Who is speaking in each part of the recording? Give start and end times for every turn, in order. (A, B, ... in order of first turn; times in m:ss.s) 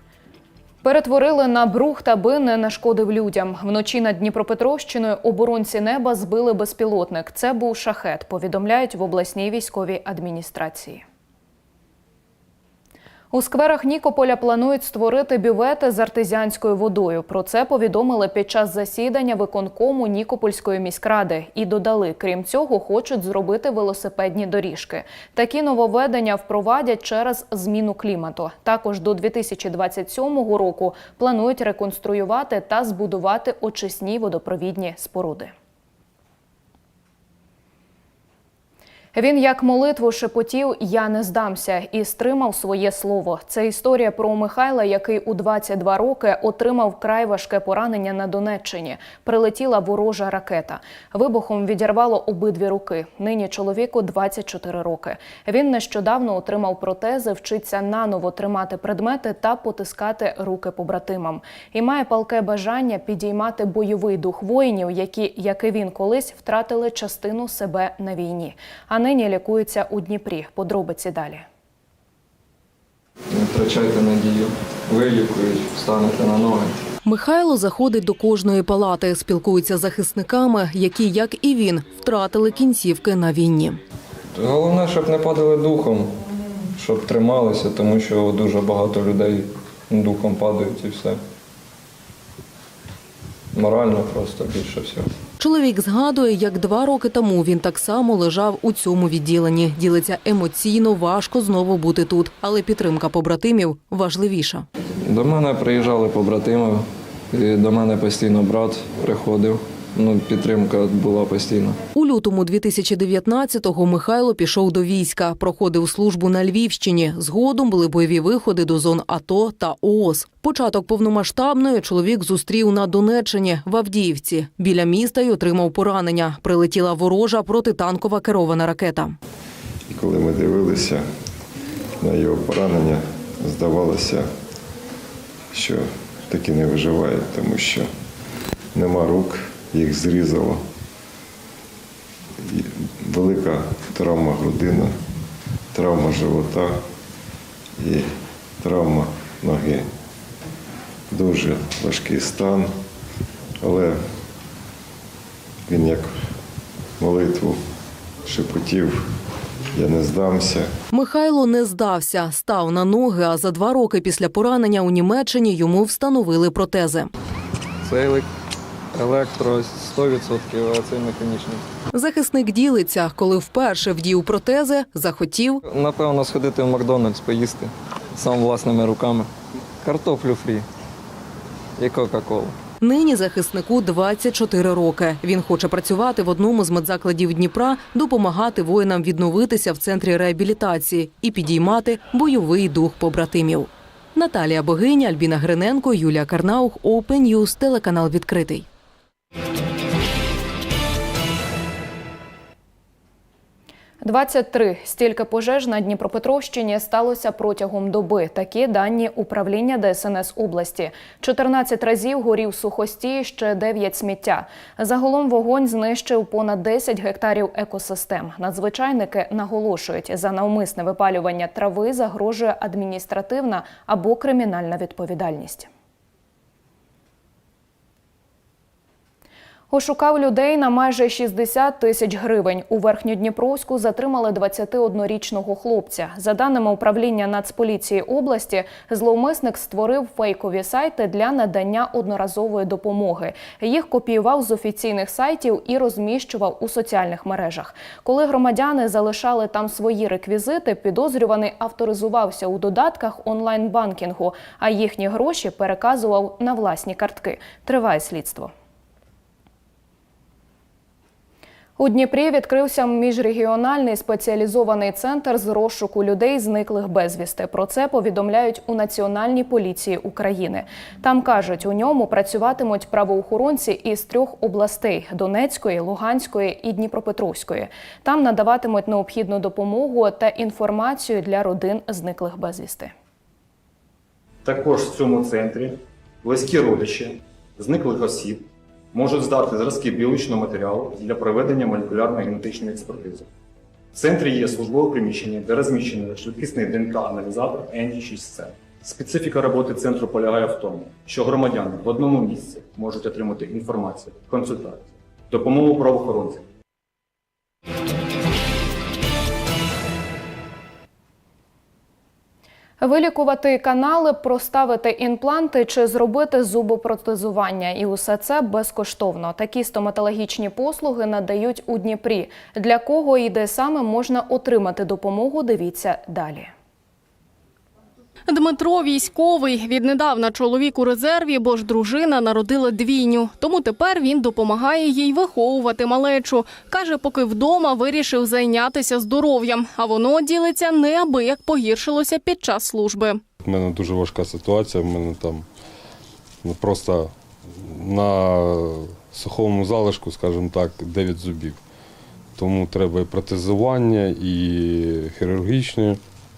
0:00.8-0:11.0 A
0:13.3-0:35.5 A
0:39.1-1:11.4 A
1:13.3-1:16.8 B
1:17.0-1:23.8 C
1:24.3-1:26.1 B
1:26.7-1:31.2 B
1:33.5-1:35.1 B
1:35.4-1:44.6 C
1:45.0-1:51.8 B
1:51.9-2:09.1 C
2:09.9-2:11.0 D
2:12.0-2:14.3 D
2:15.5-2:17.9 D
2:18.7-2:20.6 D
2:22.4-2:24.9 D
2:25.7-2:26.8 D
2:27.8-2:28.1 D
2:28.6-2:29.9 D
2:31.1-2:32.7 D
2:33.6-2:34.0 D
2:35.7-2:36.1 D
2:37.0-2:37.6 D
2:38.2-2:39.0 D
2:39.7-2:40.7 D
2:40.9-2:47.1 C
2:47.8-2:48.3 B
2:48.9-2:51.6 B
2:51.9-2:55.6 C
2:55.6-3:00.6 B
3:01.8-3:02.6 B
3:02.8-3:18.6 C
3:24.0-3:45.7 A
3:49.7-4:18.5 A
4:21.8-4:42.9 A
4:44.4-4:53.3 E
4:53.9-5:06.4 E
5:12.8-5:26.5 A
5:28.3-5:43.2 F
5:43.4-5:45.4 G
5:46.4-5:47.1 G
5:47.6-5:51.6 G
5:52.4-5:56.0 G